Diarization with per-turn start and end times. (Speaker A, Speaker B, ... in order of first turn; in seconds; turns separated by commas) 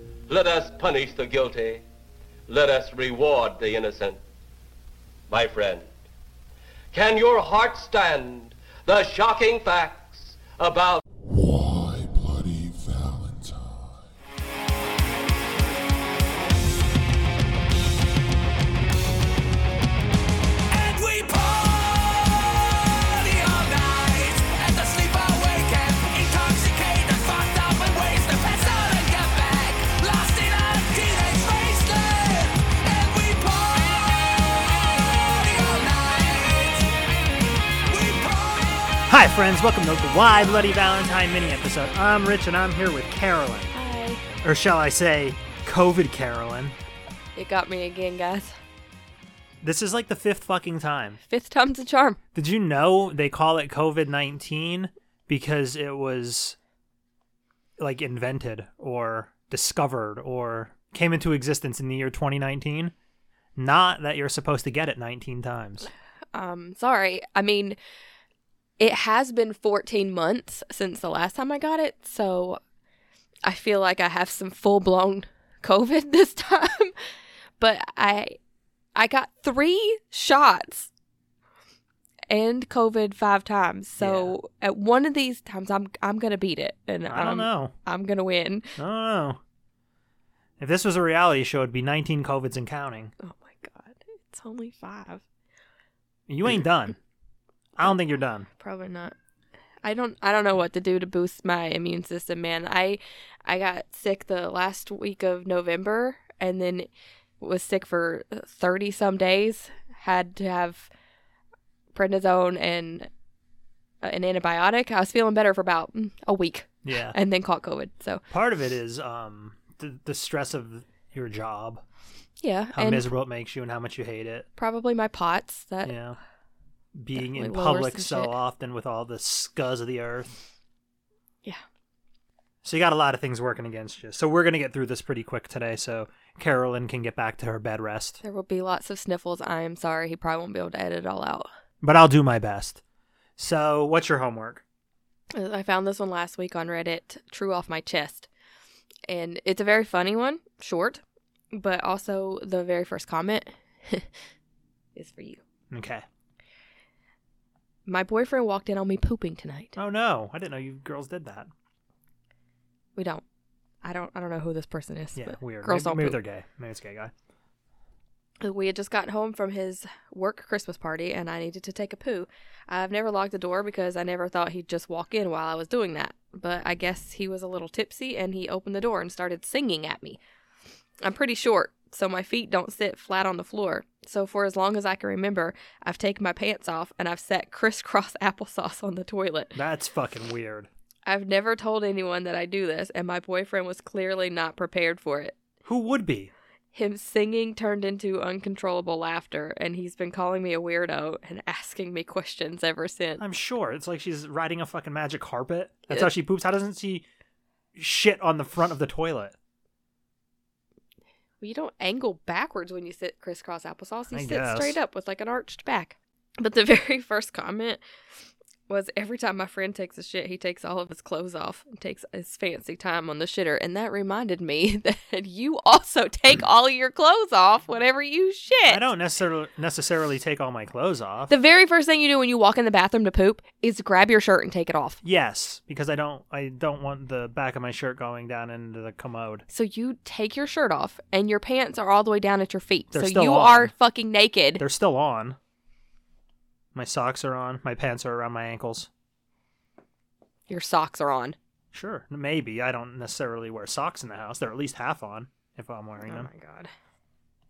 Speaker A: 0.3-1.8, Speaker A: 2.5-4.2, Speaker A: 5.3-5.9, Speaker A: 6.9-11.0, Speaker B: 11.3-13.9, Speaker C: 20.7-36.9, Speaker C: 37.9-39.1, Speaker D: 39.1-43.7, Speaker E: 43.7-44.2, Speaker D: 44.4-46.8, Speaker E: 47.4-48.5, Speaker D: 49.6-51.2, Speaker E: 51.3-52.2, Speaker D: 52.4-56.6, Speaker D: 57.8-62.9, Speaker D: 63.6-65.9, Speaker E: 66.3-67.8, Speaker E: 68.8-72.6, Speaker E: 73.5-76.9, Speaker E: 77.6-78.4, Speaker E: 79.0-80.9, Speaker E: 82.3-88.7, Speaker D: 84.0-84.4, Speaker D: 87.1-87.7, Speaker D: 88.8-89.4, Speaker D: 90.6-93.1, Speaker E: 93.2-95.2, Speaker D: 96.3-97.0, Speaker D: 97.8-98.5, Speaker E: 98.6-99.1, Speaker E: 99.8-106.9, Speaker E: 107.4-110.9, Speaker E: 111.9-113.1, Speaker E: 114.0-118.2, Speaker D: 116.8-117.2, Speaker D: 118.3-121.8, Speaker E: 122.4-123.1, Speaker D: 122.7-124.5, Speaker E: 124.6-126.0, Speaker D: 125.8-126.2, Speaker D: 127.0-130.4, Speaker E: 127.2-128.3, Speaker D: 132.6-138.2, Speaker E: 138.2-141.5, Speaker D: 141.8-142.8, Speaker D: 143.4-144.6, Speaker E: 145.3-148.3, Speaker E: 149.1-154.1, Speaker E: 154.9-155.4, Speaker D: 155.7-156.0, Speaker E: 157.9-159.8, Speaker D: 159.8-161.5, Speaker E: 163.0-163.2, Speaker E: 163.8-166.2, Speaker D: 165.2-167.1, Speaker E: 168.4-180.2, Speaker E: 181.0-189.6, Speaker D: 189.6-190.7, Speaker E: 191.1-195.4, Speaker D: 195.7-196.3, Speaker E: 196.7-203.2, Speaker D: 203.2-207.1, Speaker D: 207.8-209.3, Speaker E: 211.4-217.8, Speaker D: 214.1-214.8, Speaker E: 218.7-228.9, Speaker D: 228.7-231.3, Speaker E: 231.3-235.0, Speaker D: 235.0-239.4, Speaker E: 239.5-244.6, Speaker D: 242.9-243.7, Speaker D: 244.6-245.4, Speaker D: 246.8-248.9, Speaker E: 250.5-251.4, Speaker D: 251.7-256.3, Speaker E: 256.0-256.7